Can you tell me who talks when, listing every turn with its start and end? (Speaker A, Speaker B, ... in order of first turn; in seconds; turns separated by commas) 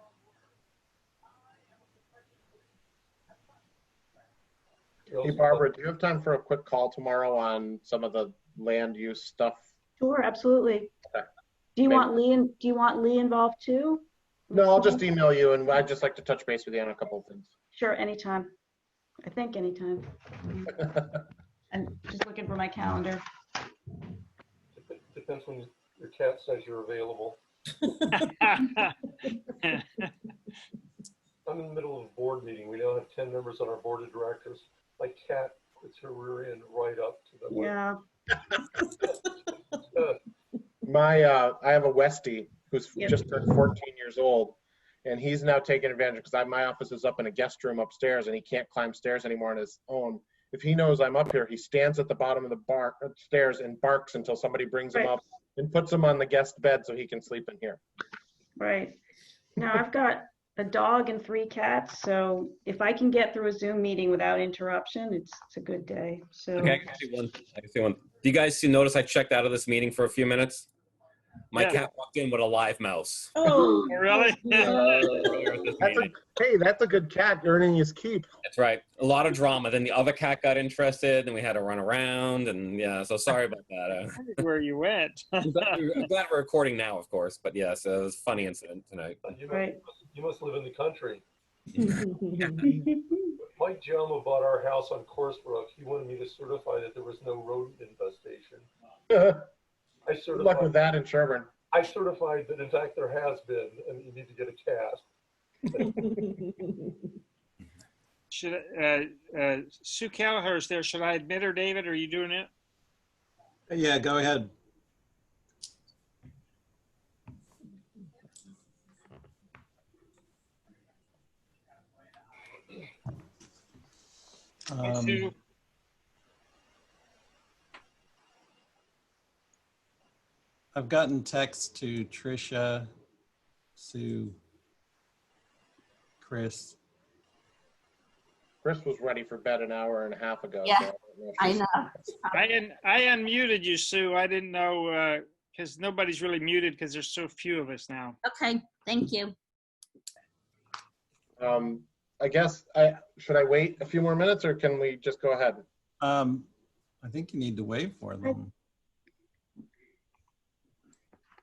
Speaker A: 5.1-5.7, Speaker B: 5.2-9.7, Speaker C: 10.0-10.9, Speaker C: 11.8-15.0, Speaker B: 11.8-12.1, Speaker B: 14.5-17.5, Speaker C: 17.7-18.5, Speaker C: 19.2-21.1, Speaker C: 21.7-23.2, Speaker A: 24.7-27.4, Speaker D: 28.1-28.9, Speaker D: 29.6-30.1, Speaker A: 31.4-37.7, Speaker C: 37.5-38.0, Speaker B: 40.8-57.8, Speaker C: 43.0-43.2, Speaker C: 58.6-59.0, Speaker C: 59.6-66.8, Speaker E: 66.6-70.7, Speaker E: 71.5-73.3, Speaker D: 71.5-71.8, Speaker C: 73.4-73.9, Speaker D: 73.9-74.9, Speaker F: 74.7-75.2, Speaker E: 74.7-76.2, Speaker B: 75.8-78.3, Speaker E: 78.5-84.2, Speaker D: 84.2-85.8, Speaker E: 85.4-89.2, Speaker A: 89.2-91.2, Speaker C: 89.5-89.8, Speaker C: 92.7-93.2, Speaker A: 93.5-98.7, Speaker B: 99.1-99.5, Speaker A: 100.0-100.7, Speaker B: 100.3-101.5, Speaker A: 101.7-105.0, Speaker A: 105.7-106.0, Speaker D: 108.3-112.5, Speaker G: 113.7-114.5, Speaker G: 124.7-125.3, Speaker D: 124.8-125.3, Speaker G: 130.7-132.9, Speaker G: 133.8-134.4, Speaker G: 136.2-136.8, Speaker B: 138.6-141.6, Speaker F: 141.4-142.4, Speaker D: 142.3-148.2, Speaker F: 148.2-149.3, Speaker B: 151.4-155.6, Speaker G: 156.0-156.5, Speaker G: 157.0-158.5